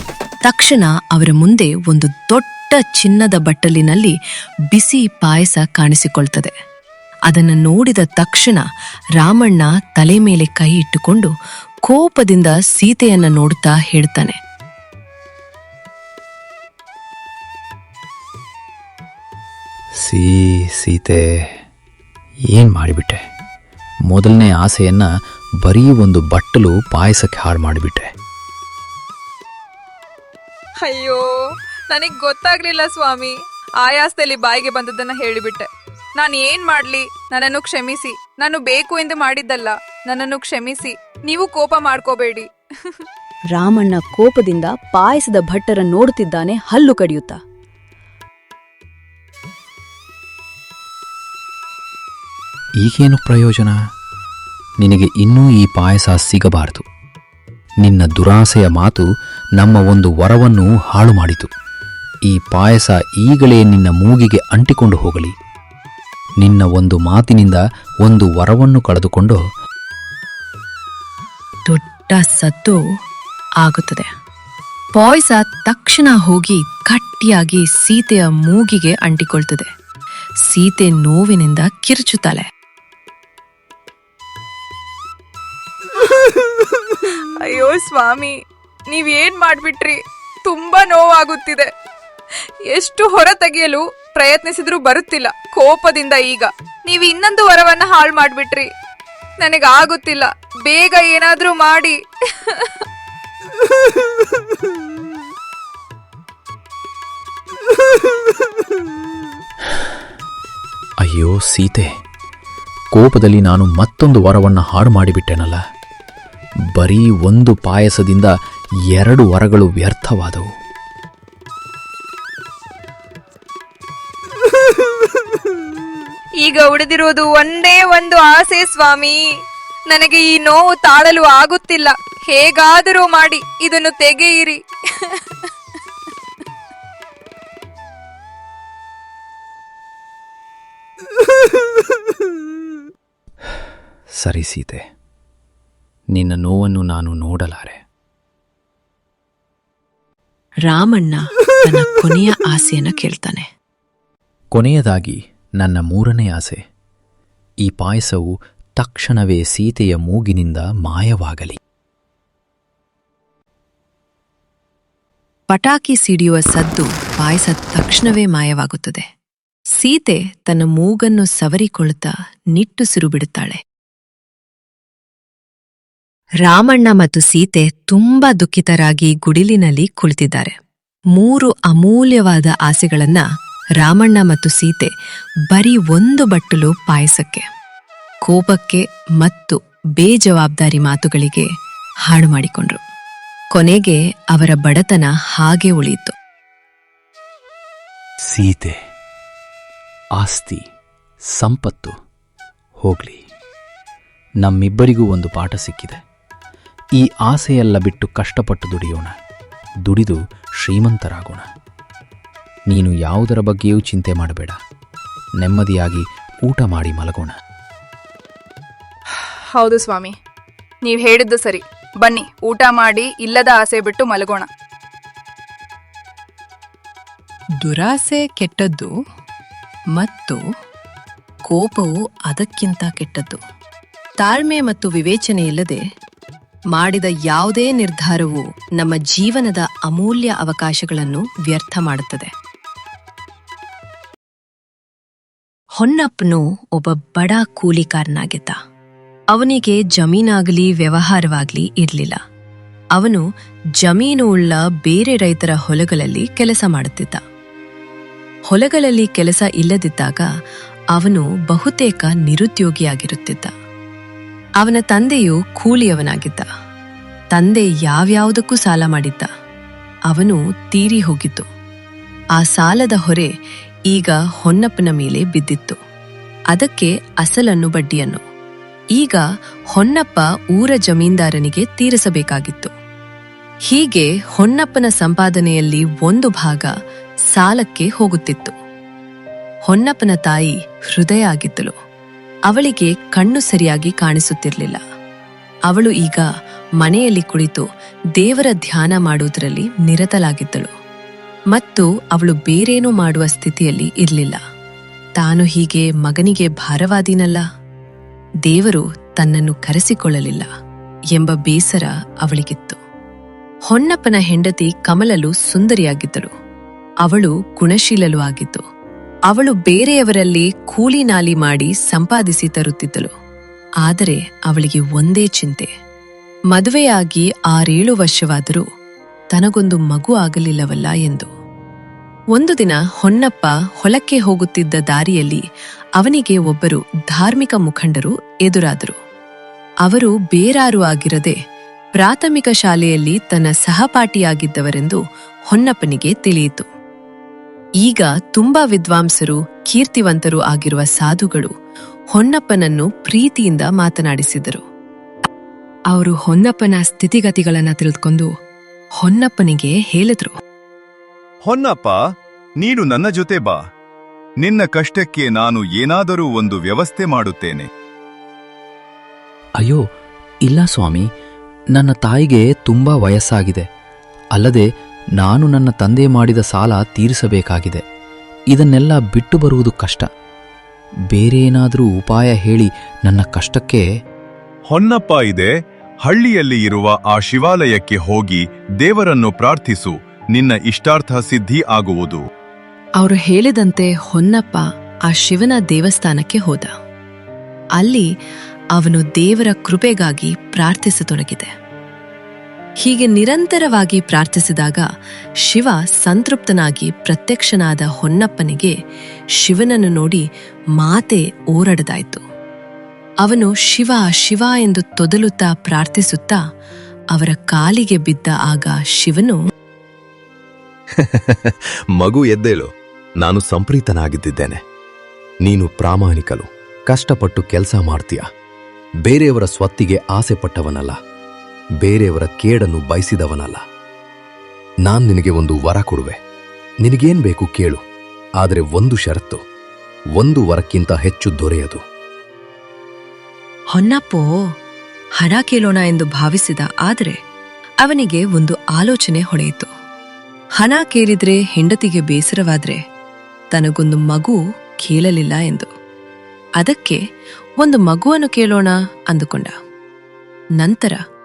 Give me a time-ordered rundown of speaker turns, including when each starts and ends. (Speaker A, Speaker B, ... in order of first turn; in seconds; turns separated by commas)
Speaker A: 0.5-4.1, Speaker A: 4.7-6.5, Speaker A: 7.3-8.6, Speaker A: 9.2-11.3, Speaker A: 11.8-14.4, Speaker B: 20.0-21.2, Speaker B: 22.5-23.2, Speaker B: 24.1-25.1, Speaker B: 25.6-28.1, Speaker C: 30.8-31.2, Speaker C: 31.9-35.7, Speaker C: 36.2-42.5, Speaker D: 43.5-47.4, Speaker B: 52.8-53.8, Speaker B: 54.8-56.8, Speaker B: 57.8-59.0, Speaker B: 59.6-61.5, Speaker B: 62.3-65.3, Speaker B: 66.4-69.4, Speaker A: 71.7-72.8, Speaker A: 73.6-74.1, Speaker A: 75.0-79.7, Speaker A: 80.5-82.4, Speaker C: 86.0-88.3, Speaker C: 88.9-91.7, Speaker C: 92.7-98.7, Speaker C: 99.4-102.0, Speaker B: 111.0-111.9, Speaker B: 112.9-115.6, Speaker B: 116.8-118.3, Speaker B: 118.9-120.5, Speaker C: 126.4-129.2, Speaker C: 129.9-134.6, Speaker B: 144.2-144.8, Speaker B: 146.1-147.8, Speaker A: 150.7-153.5, Speaker B: 154.5-156.6, Speaker B: 157.6-161.6, Speaker A: 165.5-169.0, Speaker A: 169.8-173.6, Speaker A: 176.4-180.5, Speaker A: 181.1-183.2, Speaker A: 183.8-184.9, Speaker A: 185.5-187.4, Speaker A: 188.2-191.5, Speaker A: 192.1-192.8, Speaker A: 193.5-196.1, Speaker B: 198.3-198.8, Speaker B: 200.2-200.6, Speaker B: 201.4-201.9, Speaker B: 202.8-203.2, Speaker B: 204.4-206.0, Speaker B: 207.0-209.1, Speaker B: 209.9-211.4, Speaker B: 212.7-214.6, Speaker B: 215.4-217.3, Speaker C: 219.5-220.1, Speaker C: 220.8-224.4, Speaker A: 227.6-228.9, Speaker A: 229.9-230.4, Speaker A: 231.5-233.4, Speaker A: 234.2-235.8, Speaker A: 236.7-242.3, Speaker A: 245.8-248.5, Speaker A: 249.3-252.2, Speaker A: 252.9-253.2, Speaker A: 253.8-257.2, Speaker A: 258.5-260.3, Speaker A: 260.9-263.5, Speaker A: 264.6-266.4, Speaker A: 267.3-269.3, Speaker A: 270.1-271.4, Speaker A: 272.4-273.3, Speaker A: 273.9-275.8, Speaker A: 276.5-278.2, Speaker A: 279.0-282.7, Speaker A: 283.7-286.7, Speaker A: 287.3-288.5, Speaker A: 289.7-291.7, Speaker A: 292.5-294.8, Speaker A: 295.7-296.2, Speaker A: 296.8-297.6, Speaker A: 298.2-300.7, Speaker A: 301.5-304.4, Speaker A: 305.2-307.4, Speaker A: 308.5-310.5, Speaker A: 311.1-312.8, Speaker A: 313.7-316.3, Speaker A: 317.0-318.6, Speaker A: 319.3-323.1, Speaker A: 323.8-325.7, Speaker A: 326.5-328.6, Speaker A: 329.3-331.3, Speaker A: 332.3-335.4, Speaker A: 336.0-338.9, Speaker A: 339.8-341.4, Speaker A: 342.0-345.0, Speaker A: 345.5-346.7, Speaker A: 347.8-351.5, Speaker A: 352.1-354.6, Speaker A: 355.9-358.3, Speaker A: 359.0-360.3, Speaker E: 361.4-362.0, Speaker E: 362.6-363.6, Speaker E: 364.4-367.7, Speaker B: 370.4-371.1, Speaker B: 371.7-373.6, Speaker B: 374.3-374.6, Speaker B: 375.2-377.8, Speaker B: 378.5-380.1, Speaker B: 381.1-383.8, Speaker E: 384.7-385.5, Speaker E: 386.0-392.2, Speaker A: 393.0-396.7, Speaker A: 397.8-398.1, Speaker A: 398.7-401.5, Speaker A: 402.8-404.8, Speaker A: 405.4-408.7, Speaker A: 409.4-410.2, Speaker A: 410.8-412.2, Speaker A: 413.2-416.4, Speaker A: 417.1-419.4, Speaker F: 421.1-422.7, Speaker F: 423.2-424.6, Speaker F: 425.4-428.2, Speaker F: 429.0-430.9, Speaker F: 431.8-433.6, Speaker F: 434.8-436.2, Speaker F: 436.8-437.8, Speaker F: 438.4-439.4, Speaker F: 440.2-441.8, Speaker A: 443.7-444.3, Speaker A: 445.2-447.2, Speaker A: 447.8-449.7, Speaker A: 450.6-452.8, Speaker A: 453.5-455.7, Speaker A: 456.6-457.0, Speaker A: 457.6-459.5, Speaker A: 460.6-461.0